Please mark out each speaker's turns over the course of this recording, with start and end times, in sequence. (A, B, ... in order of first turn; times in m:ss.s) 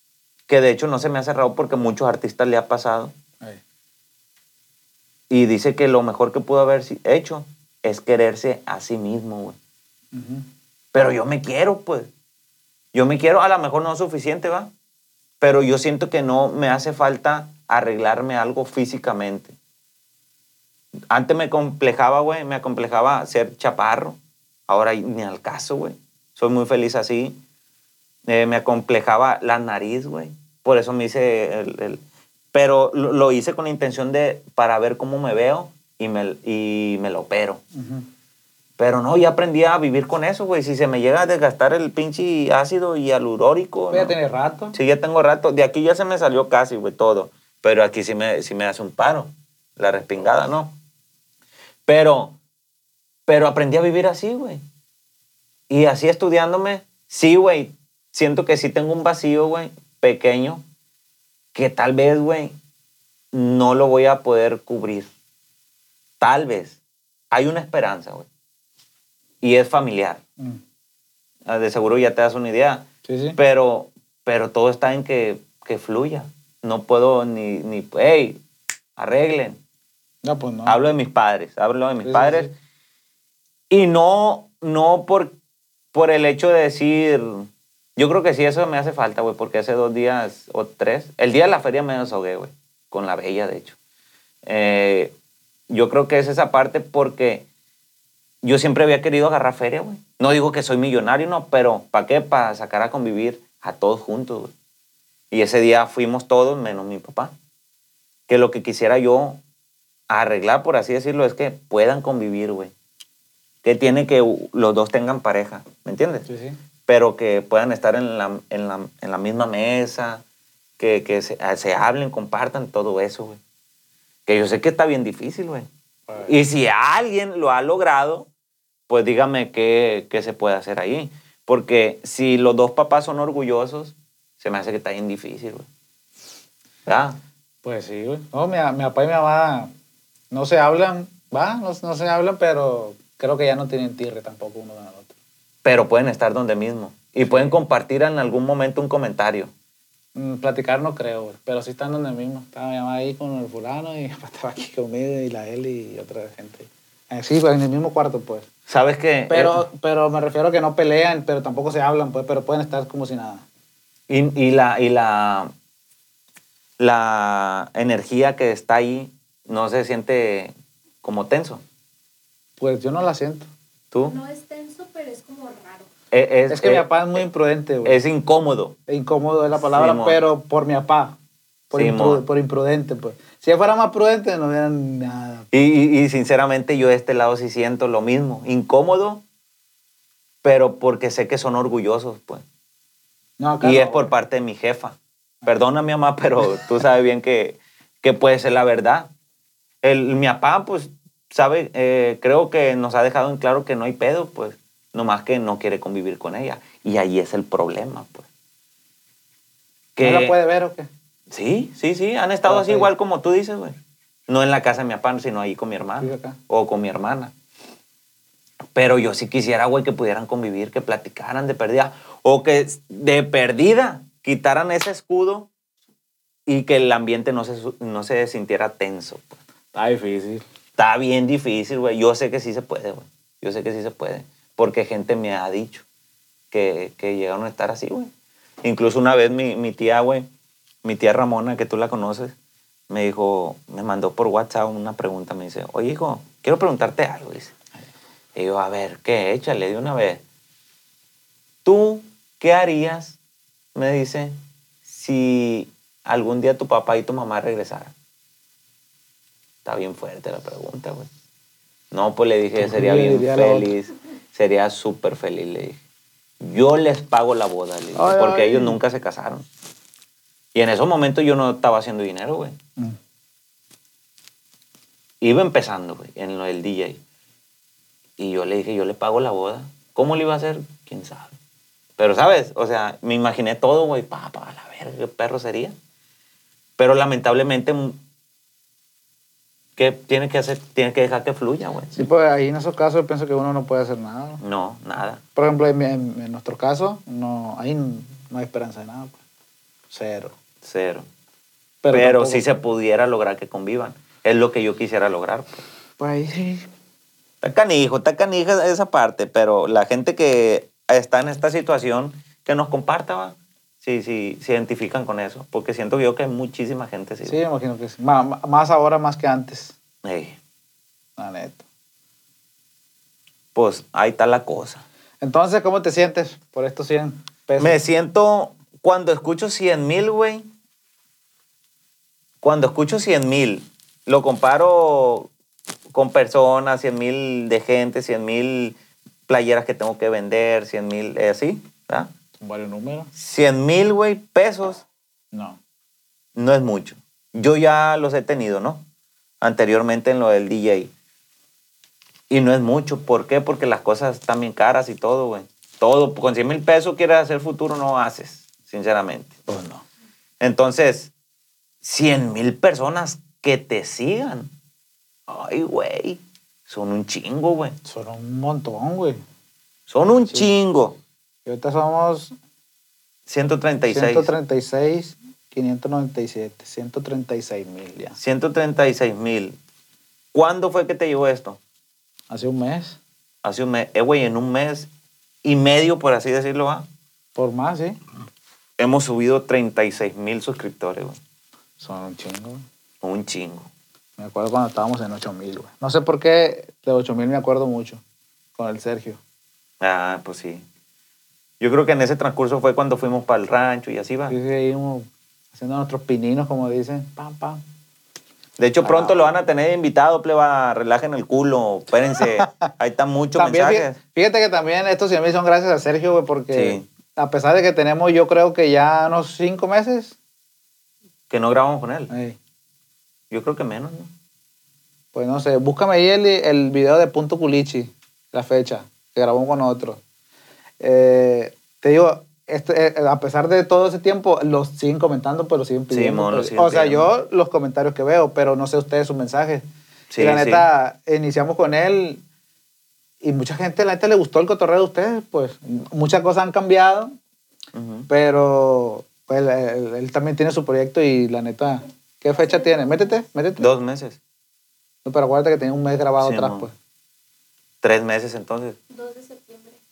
0:00.5-0:03.1 A
0:05.3-0:09.6 A
0:10.1-0:10.5 B
0:10.9-0:12.1 A
0:12.9-0:14.7 A
0:15.4-0:19.6 A
0:21.1-0:27.4 A
0:28.3-0:32.0 A
0:32.5-0:37.6 A
0:37.7-0:38.1 B
0:38.8-0:44.2 A
0:43.9-0:44.8 B
0:44.7-0:50.8 A
0:51.9-0:52.4 A
0:53.3-0:54.6 A
0:55.7-1:00.6 A
1:01.5-1:02.6 A
1:03.3-1:05.1 A
1:06.2-1:06.8 A
1:07.3-1:08.3 A
1:09.4-1:10.2 A
1:11.5-1:18.4 A
1:13.0-1:13.4 B
1:19.0-1:19.6 A
1:20.2-1:20.8 B
1:20.7-1:22.5 A
1:22.0-1:22.5 B
1:23.7-1:25.4 A
1:25.9-1:33.8 A
1:34.4-1:35.2 A
1:35.7-1:37.5 A
1:38.4-1:44.5 A
1:45.3-1:47.4 A
1:48.3-1:49.4 A
1:50.1-1:52.7 A
1:53.6-1:56.3 A
1:56.3-1:56.6 B
1:56.9-2:00.2 A
2:00.8-2:03.4 A
2:04.3-2:05.7 A
2:06.1-2:06.4 B
2:06.2-2:08.3 A
2:08.9-2:15.7 A
2:16.9-2:17.2 A
2:17.6-2:19.7 B
2:20.3-2:25.1 B
2:25.6-2:29.5 A
2:27.3-2:27.6 B
2:30.2-2:38.5 B
2:38.7-2:39.6 A
2:39.3-2:43.4 B
2:44.1-2:45.5 A
2:46.8-2:51.6 A
2:52.6-2:53.5 B
2:53.9-2:54.2 A
2:54.1-2:55.9 C
2:56.1-2:57.2 A
2:56.5-2:58.0 B
2:57.8-2:58.8 A
2:58.9-3:01.2 B
2:59.7-3:00.2 A
3:01.7-3:05.5 B
3:01.7-3:02.2 A
3:05.5-3:09.2 A
3:10.4-3:12.4 A
3:13.4-3:14.1 B
3:13.6-3:19.1 A
3:19.8-3:28.3 A
3:30.0-3:30.4 A
3:30.0-3:30.9 B
3:31.3-3:33.8 A
3:32.5-3:32.9 B
3:34.3-3:37.3 A
3:36.0-3:36.4 B
3:38.8-3:45.5 A
3:46.5-3:49.4 A
3:49.7-3:50.4 B
3:50.8-3:55.8 A
3:56.5-3:58.1 A
3:58.6-4:00.3 A
4:00.8-4:02.4 A
4:02.9-4:07.5 A
4:08.4-4:10.2 A
4:11.6-4:13.2 A
4:13.8-4:17.9 A
4:19.6-4:21.1 A
4:21.9-4:25.8 A
4:22.6-4:23.7 B
4:26.4-4:29.5 A
4:28.0-4:28.8 B
4:30.5-4:32.6 A
4:35.2-4:37.0 A
4:38.2-4:41.4 A
4:42.0-4:45.8 A
4:46.8-4:48.0 A
4:49.8-4:52.0 A
4:51.9-4:54.4 B
4:54.4-4:55.2 A
4:55.4-4:59.2 B
4:59.9-5:00.4 B
5:00.6-5:01.1 A
5:01.8-5:02.4 B
5:01.9-5:05.6 A
5:06.0-5:06.7 B
5:07.4-5:17.4 A
5:17.3-5:19.8 B
5:20.0-5:20.4 A
5:21.2-5:21.6 B
5:23.6-5:24.8 A
5:25.2-5:27.8 B
5:27.6-5:30.5 A
5:32.4-5:35.3 A
5:35.9-5:38.8 A
5:39.3-5:42.1 A
5:42.4-5:43.1 B
5:43.2-5:44.8 A
5:45.3-5:45.6 B
5:46.4-5:48.8 A
5:49.4-5:50.9 A
5:52.3-5:59.4 A
5:59.5-5:59.8 B
6:00.4-6:01.1 A
6:01.8-6:04.5 A
6:05.3-6:07.8 A
6:07.8-6:09.2 B
6:09.9-6:11.0 A
6:11.4-6:12.4 B
6:13.3-6:14.3 A
6:13.9-6:18.2 B
6:18.2-6:19.6 A
6:20.3-6:21.6 A
6:22.3-6:23.0 B
6:23.4-6:24.9 A
6:25.4-6:26.9 A
6:27.4-6:28.0 B
6:28.8-6:31.2 A
6:31.8-6:32.6 B
6:33.0-6:33.7 A
6:34.2-6:38.0 B
6:38.6-6:39.2 B
6:39.8-6:40.6 A
6:41.6-6:44.4 A
6:44.3-6:47.6 B
6:48.6-6:54.0 A
6:48.8-6:49.2 B
6:52.2-6:52.7 B
6:53.4-7:00.2 B
6:56.5-6:56.9 A
7:01.3-7:02.1 A
7:02.1-7:02.4 B
7:03.3-7:04.1 A
7:05.1-7:10.0 B
7:10.8-7:19.6 B
7:15.9-7:17.1 A
7:20.1-7:20.7 A
7:20.2-7:22.2 B
7:23.2-7:27.2 B
7:27.7-7:28.1 A
7:28.1-7:33.7 B
7:32.3-7:33.2 C
7:33.6-7:34.2 A
7:35.0-7:36.7 B
7:36.2-7:36.7 A
7:37.8-7:38.8 A
7:38.9-7:39.8 C